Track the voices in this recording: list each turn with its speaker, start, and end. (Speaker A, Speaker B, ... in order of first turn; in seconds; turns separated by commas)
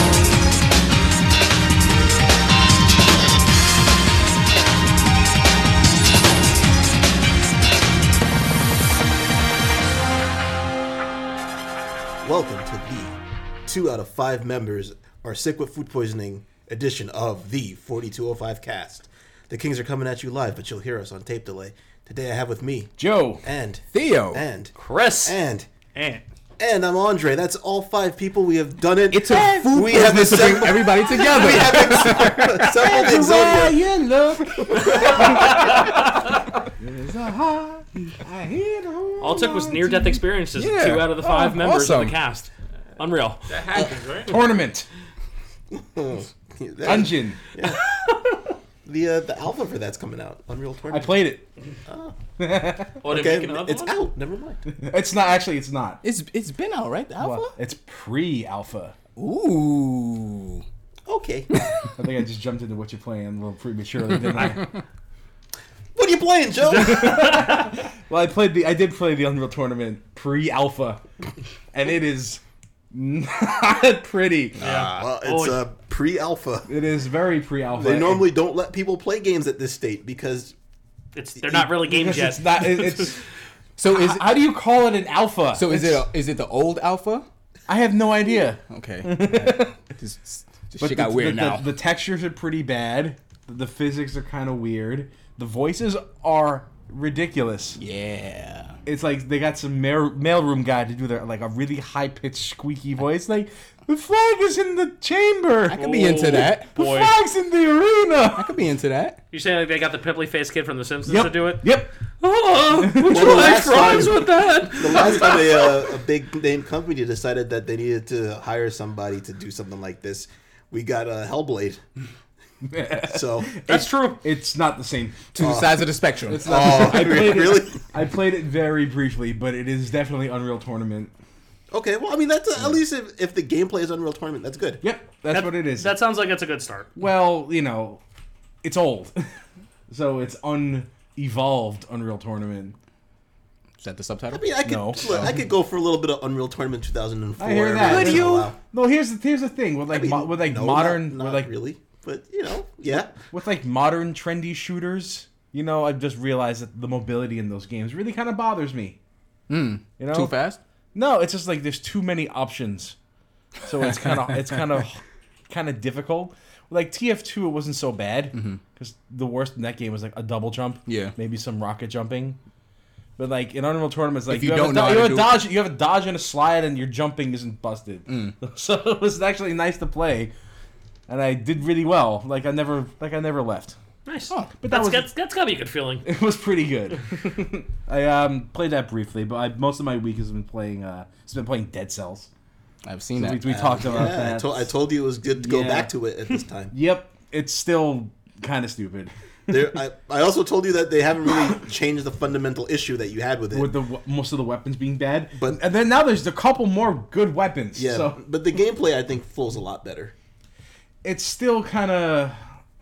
Speaker A: 12.2-25.7, Speaker B: 23.0-23.4, Speaker C: 23.9-24.4, Speaker D: 24.7-25.4, Speaker E: 25.9-26.2, Speaker A: 26.6-33.8, Speaker C: 29.1-32.8, Speaker B: 29.2-30.5, Speaker B: 31.4-35.7, Speaker A: 34.6-35.6, Speaker B: 36.8-40.2, Speaker D: 39.2-43.6, Speaker C: 40.5-42.2, Speaker E: 43.5-44.4, Speaker B: 44.2-44.9, Speaker A: 45.7-47.8, Speaker B: 46.8-47.4, Speaker A: 48.8-51.2, Speaker B: 50.9-51.5, Speaker A: 51.9-52.1, Speaker B: 52.4-53.0, Speaker E: 53.0-53.9, Speaker A: 53.0-54.6, Speaker B: 54.7-56.0, Speaker C: 56.0-57.5, Speaker B: 57.2-59.0, Speaker C: 59.2-60.6, Speaker A: 61.1-61.5, Speaker B: 62.0-64.7, Speaker A: 65.9-67.6, Speaker B: 66.8-71.0, Speaker B: 71.7-74.6, Speaker C: 74.6-75.0, Speaker D: 74.6-75.6, Speaker A: 74.6-76.7, Speaker B: 76.7-78.3, Speaker A: 77.7-80.5, Speaker D: 81.1-83.2, Speaker B: 81.4-83.2, Speaker C: 83.8-84.4, Speaker B: 83.8-86.1, Speaker C: 85.5-87.2, Speaker B: 87.7-89.8, Speaker C: 88.7-91.7, Speaker B: 90.8-97.8, Speaker C: 97.8-98.8, Speaker B: 98.8-108.5, Speaker C: 105.7-106.7, Speaker D: 105.8-107.1, Speaker C: 108.3-109.2, Speaker D: 109.3-115.8, Speaker B: 111.0-111.9, Speaker B: 112.8-113.9, Speaker A: 113.0-121.8, Speaker B: 122.6-125.6, Speaker A: 123.0-123.6, Speaker D: 123.7-124.2, Speaker C: 125.3-127.1, Speaker A: 125.4-125.8, Speaker B: 126.3-131.1, Speaker A: 126.4-127.8, Speaker A: 131.7-134.8, Speaker B: 134.8-136.0, Speaker D: 135.3-136.9, Speaker B: 136.9-138.0, Speaker B: 138.6-139.3, Speaker B: 139.9-142.8, Speaker C: 143.8-145.3, Speaker A: 144.3-148.6, Speaker B: 144.6-145.3, Speaker B: 147.4-151.5, Speaker C: 147.8-148.5, Speaker A: 149.9-153.2, Speaker B: 153.1-159.0, Speaker C: 159.5-160.6, Speaker B: 160.0-160.3, Speaker B: 160.9-162.9, Speaker B: 163.6-172.4, Speaker C: 168.3-168.6, Speaker C: 170.8-171.1, Speaker B: 173.2-180.3, Speaker C: 174.3-175.4, Speaker C: 178.1-178.3, Speaker B: 181.1-183.8, Speaker D: 184.1-186.1, Speaker B: 184.6-185.1, Speaker B: 186.0-192.3, Speaker C: 192.8-193.7, Speaker B: 193.1-194.7, Speaker A: 193.4-196.7, Speaker B: 195.3-195.9, Speaker B: 196.7-199.7, Speaker A: 199.5-203.7, Speaker B: 203.5-208.2, Speaker A: 205.3-205.6, Speaker A: 207.7-210.1, Speaker B: 211.0-212.4